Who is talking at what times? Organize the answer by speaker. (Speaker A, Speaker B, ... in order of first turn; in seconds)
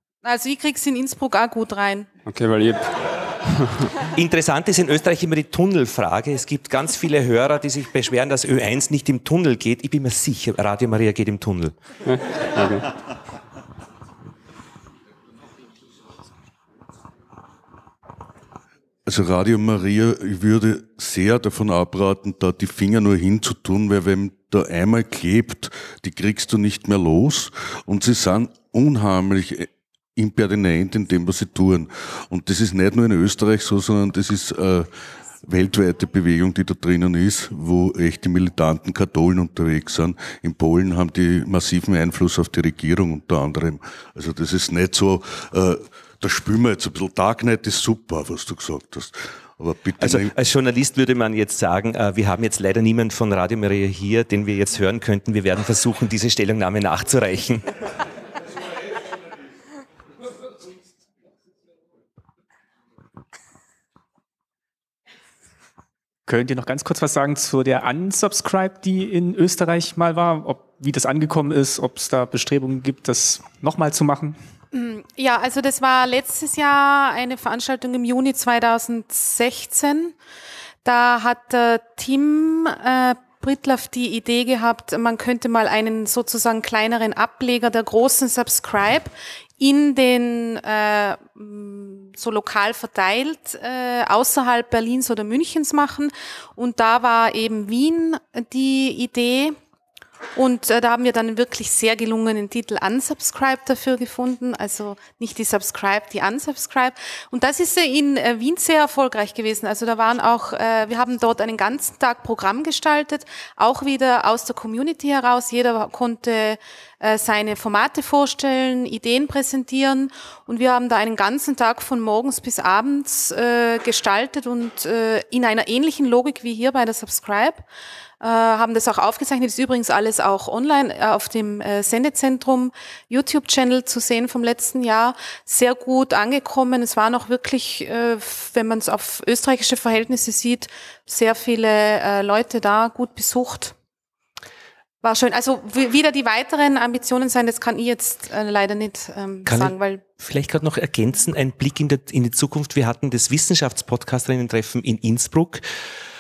Speaker A: 0.2-2.1, 74.7-80.1, 80.8-99.6, 100.4-127.6, 128.2-143.7, 145.0-150.0
Speaker B: 2.3-3.9, 12.1-12.9
Speaker C: 4.1-11.8, 50.0-57.8, 149.5-155.7
Speaker D: 19.1-34.9, 35.4-50.3
Speaker E: 66.3-74.4